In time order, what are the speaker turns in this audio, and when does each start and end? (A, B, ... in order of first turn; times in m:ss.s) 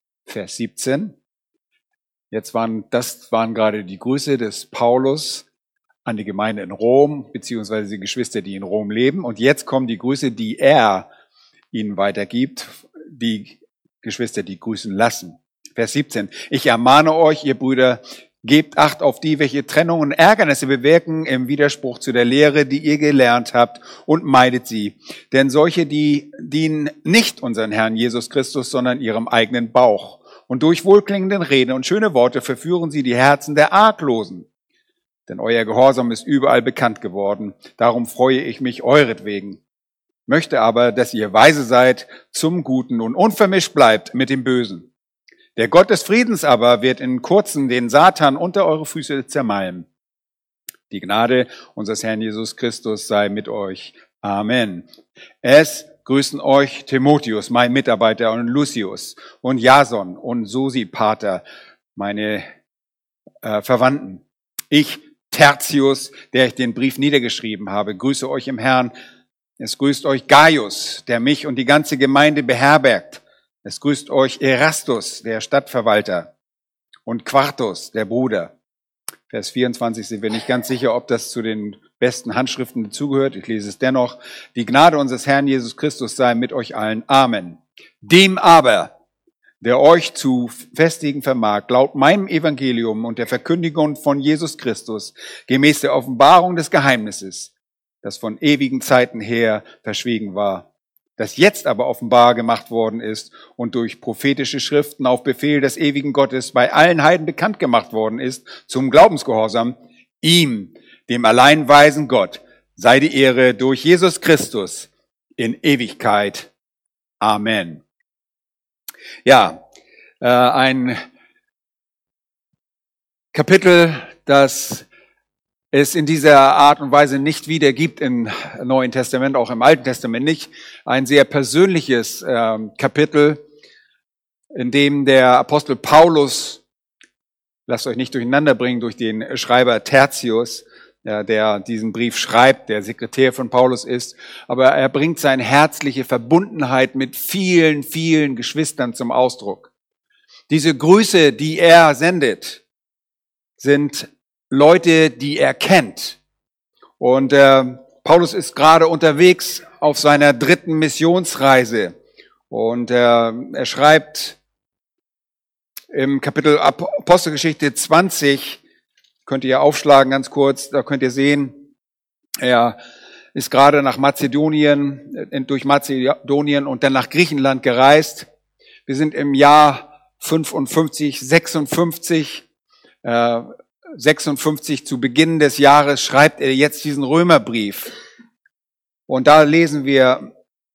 0:00.3-0:01.2 A
0:02.3-0:05.5 A
0:06.1-0:11.1 A
0:11.7-0:34.5 A
0:35.3-0:39.6 A
0:40.3-0:44.9 A
0:45.6-0:49.9 A
0:50.9-0:54.9 A
0:55.4-1:01.4 A
1:02.0-1:02.4 A
1:03.4-1:08.9 A
1:09.6-1:16.3 A
1:17.1-1:18.5 A
1:19.3-1:28.9 A
1:29.6-1:37.5 A
1:38.0-1:40.7 A
1:41.2-1:56.5 A
1:57.2-1:57.8 A
1:59.2-1:59.6 A
2:00.2-2:01.0 A
2:03.3-2:04.9 A
2:05.7-2:13.4 A
2:14.5-2:16.6 A
2:17.7-2:29.7 A
2:30.5-2:32.6 A
2:33.6-2:36.2 A
2:37.0-2:42.0 A
2:42.5-2:44.4 A
2:45.9-2:48.6 A
2:49.3-2:51.6 A
2:52.4-2:52.8 A
2:53.3-2:58.3 A
2:58.9-3:02.4 A
3:03.0-3:07.9 A
3:09.1-3:10.3 A